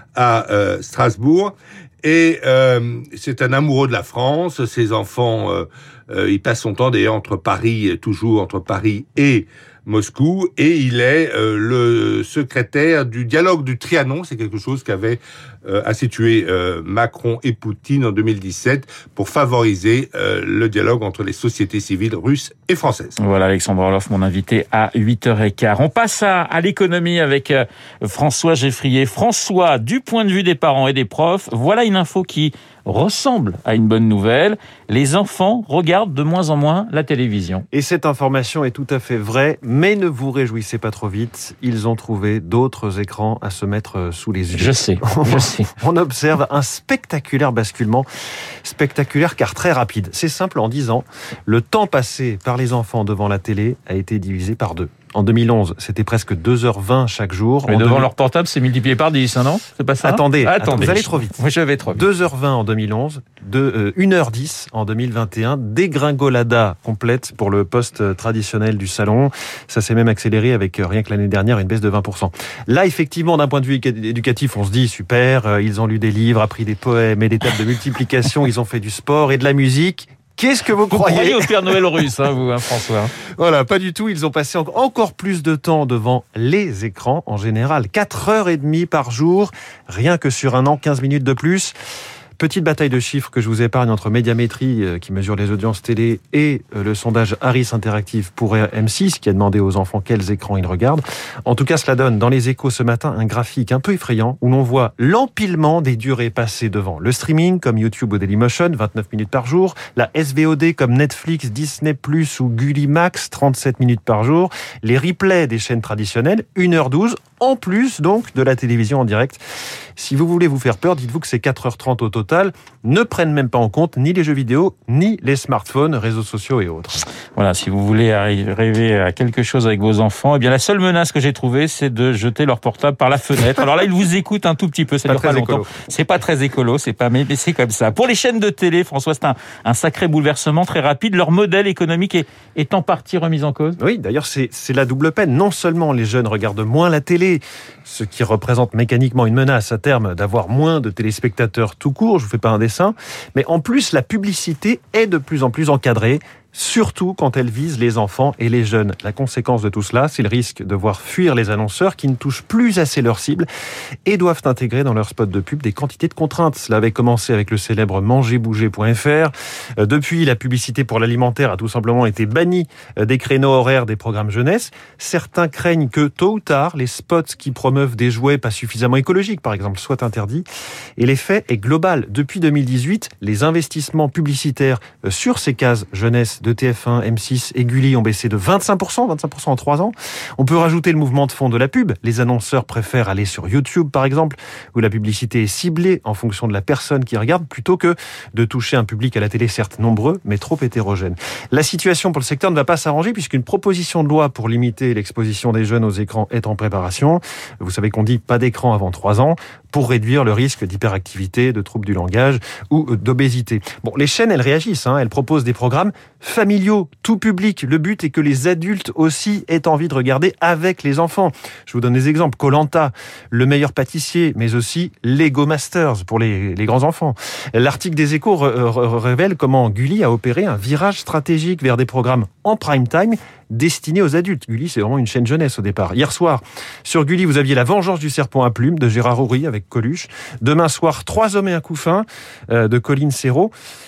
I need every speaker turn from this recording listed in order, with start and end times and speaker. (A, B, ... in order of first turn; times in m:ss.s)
0:00.1-0:23.2 A
0:23.2-0:37.6 B
0:37.7-0:48.1 C
0:44.5-0:45.7 B
0:48.6-0:58.1 C
0:57.7-1:02.1 B
1:00.0-1:01.4 C
1:01.9-1:21.5 C
1:20.9-1:23.1 B
1:23.4-1:31.7 C
1:32.4-1:59.4 C
2:00.0-2:07.0 C
2:07.3-2:23.8 B
2:15.1-2:15.7 C
2:23.8-2:43.5 C
2:44.0-3:00.4 C
3:01.0-4:03.5 C